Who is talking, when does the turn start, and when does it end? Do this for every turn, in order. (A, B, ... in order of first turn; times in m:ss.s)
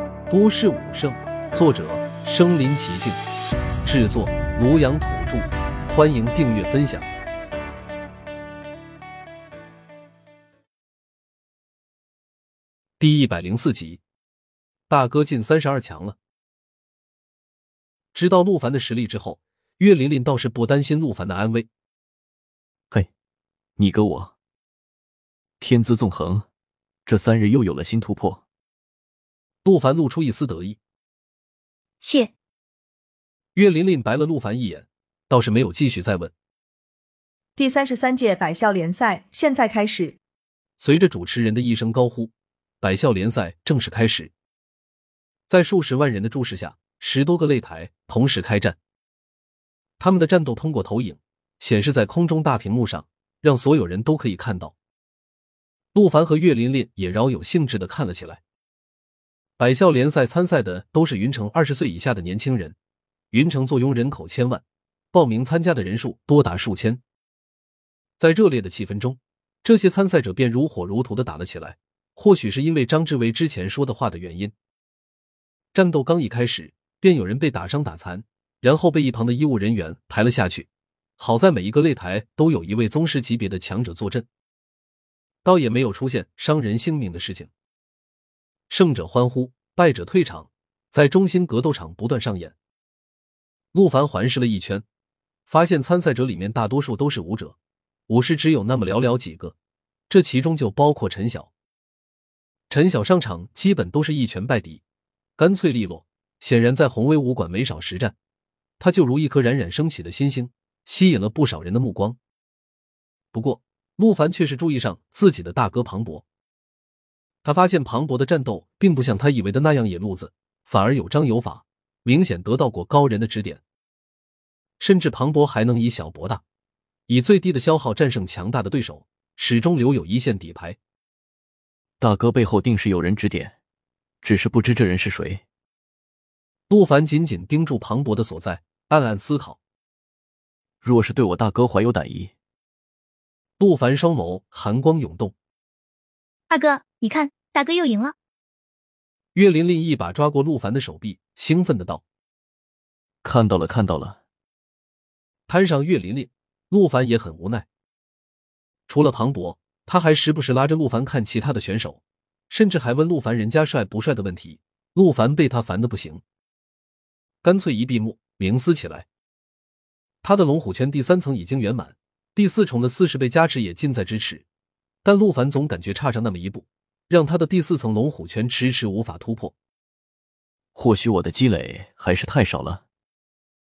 0:00.3-0:03.2 A
0:03.8-0:07.1 A
0:13.0-0:14.0 A
0:14.9-0:16.2 A
0:18.1-0:21.7 A
0:23.8-0:24.3 B
0:25.6-0:26.5 B
0:27.1-0:28.4 B
0:29.6-0:30.8 A
0:32.0-0:32.3 C
0:33.6-0:36.3 A
0:37.6-0:40.2 D
0:40.8-0:44.3 A
0:45.5-0:48.8 A
0:50.0-0:54.8 A
0:55.9-0:58.4 A
0:59.6-1:02.8 A
1:03.3-1:07.0 A
1:08.2-1:14.5 A
1:15.7-1:20.7 A
1:21.2-1:24.3 A
1:25.4-1:27.5 A
1:28.7-1:32.6 A
1:33.7-1:34.8 A
1:35.5-1:37.6 A
1:38.1-1:39.6 A
1:40.1-1:41.5 A
1:42.7-1:44.8 A
1:45.4-1:48.2 A
1:48.8-1:52.2 A
1:53.3-1:56.2 A
1:57.4-2:03.6 A
2:04.8-2:06.4 A
2:07.1-2:10.8 A
2:12.0-2:13.5 B
2:14.2-2:15.4 B
2:16.7-2:19.6 A
2:20.8-2:22.3 B
2:23.6-2:25.3 A
2:26.5-2:28.2 C
2:29.3-2:32.0 A
2:33.2-2:34.2 B
2:35.5-2:37.7 A
2:38.9-2:46.2 A
2:47.4-2:49.1 A
2:50.2-2:54.4 A
2:55.0-2:59.5 A
3:00.8-3:02.8 B